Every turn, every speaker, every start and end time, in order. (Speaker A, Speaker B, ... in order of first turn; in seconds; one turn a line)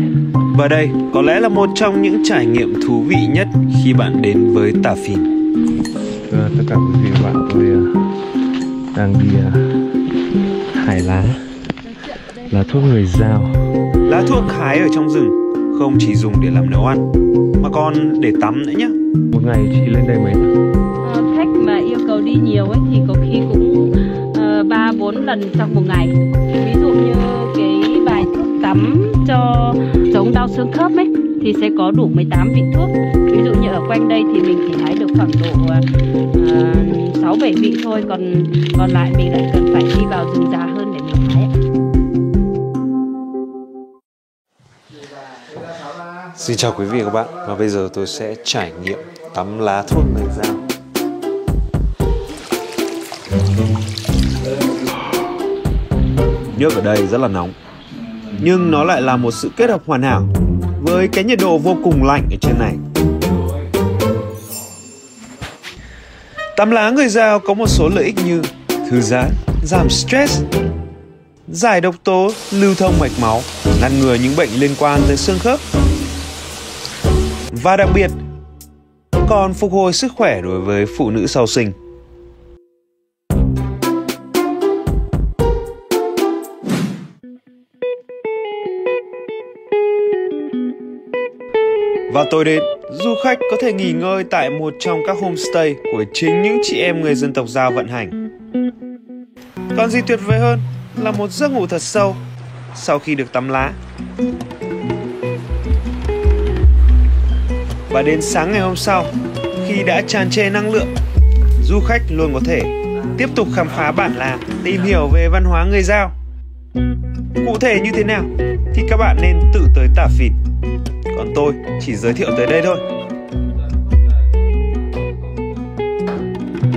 Speaker A: 0.5-5.3
Speaker B: 6.3-7.9
Speaker B: 8.9-9.7
Speaker B: 10.7-11.4
Speaker B: 12.5-13.6
Speaker A: 14.0-17.1
Speaker A: 17.6-18.9
Speaker B: 19.3-20.5
Speaker C: 21.0-41.5
Speaker A: 46.4-50.6
Speaker A: 56.5-57.5
Speaker A: 58.4-62.8
Speaker A: 66.5-70.5
Speaker A: 71.5-75.6
Speaker A: 77.5-78.2
Speaker A: 79.2-81.7
Speaker A: 92.1-98.2
Speaker A: 99.7-102.2
Speaker A: 102.7-103.8
Speaker A: 107.9-109.1
Speaker A: 109.6-110.9
Speaker A: 111.6-116.1
Speaker A: 117.4-120.4
Speaker A: 121.1-122.8